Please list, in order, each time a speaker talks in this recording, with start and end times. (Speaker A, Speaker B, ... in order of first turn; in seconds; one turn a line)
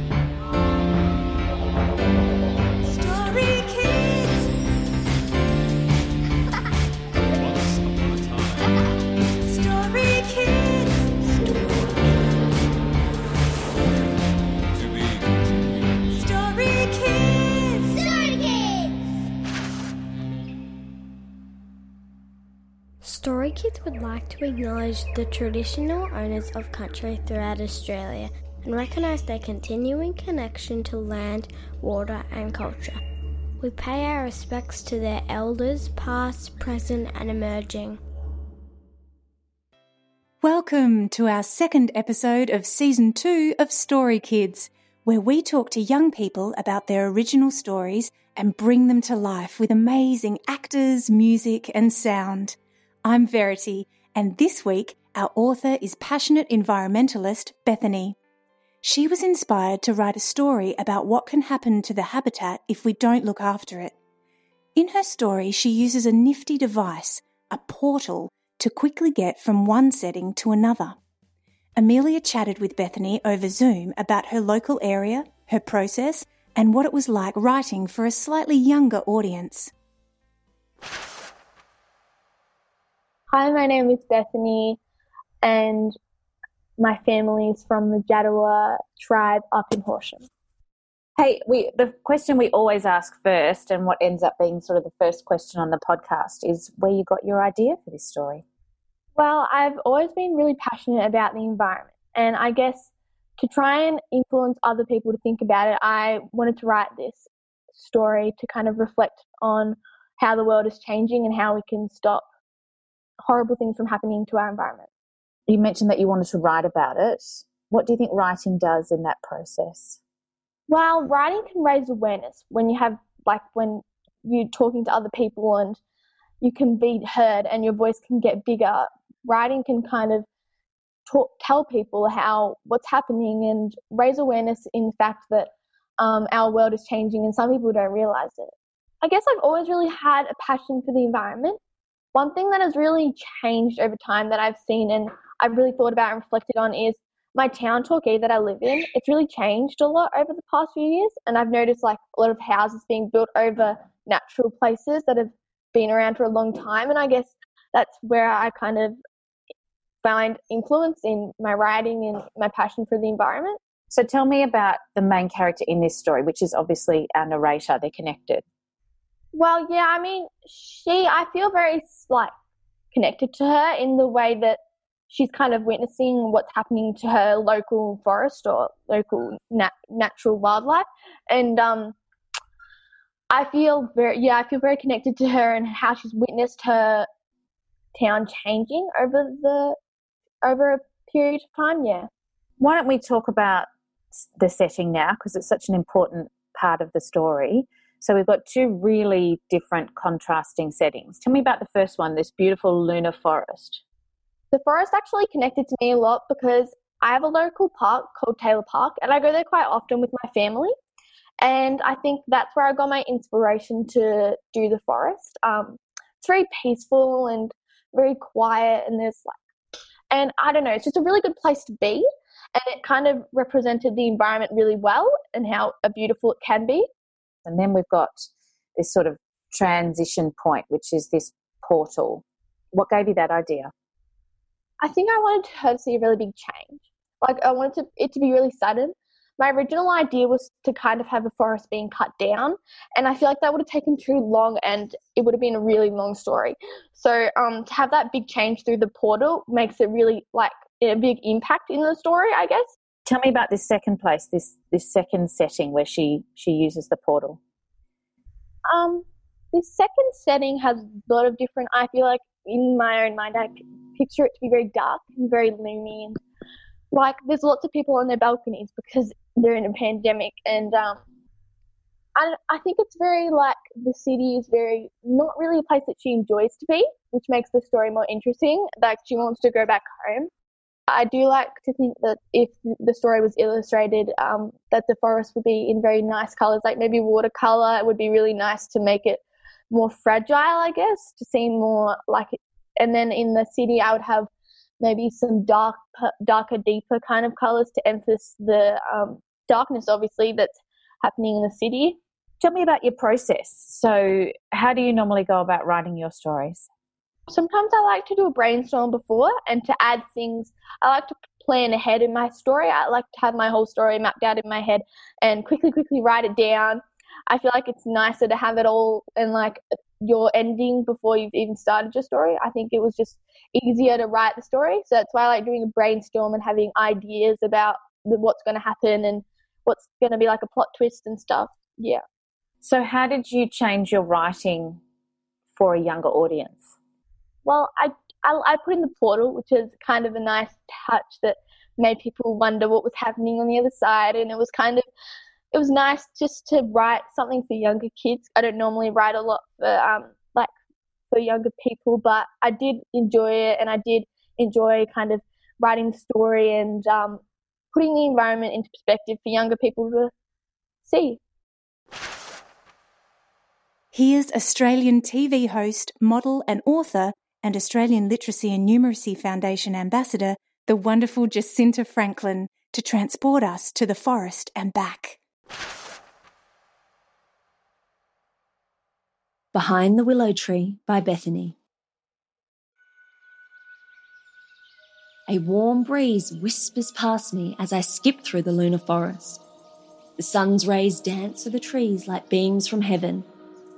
Speaker A: 3.0-4.1
Speaker A: 9.6-10.9
Speaker A: 16.4-16.9
Speaker B: 23.0-33.0
Speaker B: 33.6-38.0
Speaker C: 40.4-58.2
Speaker C: 58.8-63.9
Speaker C: 64.8-71.0
Speaker C: 71.8-79.7
Speaker D: 83.3-84.8
Speaker D: 85.4-86.0
Speaker D: 86.8-90.3
Speaker E: 91.2-98.4
Speaker D: 99.1-112.3
Speaker D: 113.2-114.9
Speaker E: 115.5-120.0
Speaker D: 120.7-125.8
Speaker D: 126.4-130.3
Speaker D: 131.1-141.6
Speaker D: 142.1-159.0
Speaker D: 160.0-163.6
Speaker E: 163.9-168.4
Speaker D: 169.3-172.3
Speaker D: 172.9-182.0
Speaker D: 183.3-187.1
Speaker D: 187.9-189.8
Speaker D: 190.4-192.1
Speaker E: 192.6-203.8
Speaker D: 204.5-210.8
Speaker D: 211.4-219.4
Speaker D: 220.1-226.9
Speaker E: 227.4-228.2
Speaker E: 228.8-233.7
Speaker D: 234.8-252.7
Speaker E: 253.1-257.4
Speaker D: 258.6-266.2
Speaker D: 266.9-271.0
Speaker D: 272.1-280.3
Speaker D: 280.9-302.0
Speaker E: 302.4-306.7
Speaker D: 307.3-332.0
Speaker E: 332.6-334.8
Speaker E: 335.5-336.8
Speaker D: 337.4-344.9
Speaker D: 345.5-350.5
Speaker D: 351.1-360.1
Speaker D: 360.8-361.2
Speaker C: 363.9-375.2
Speaker A: 379.5-381.6
Speaker A: 385.3-389.4
Speaker A: 390.2-393.3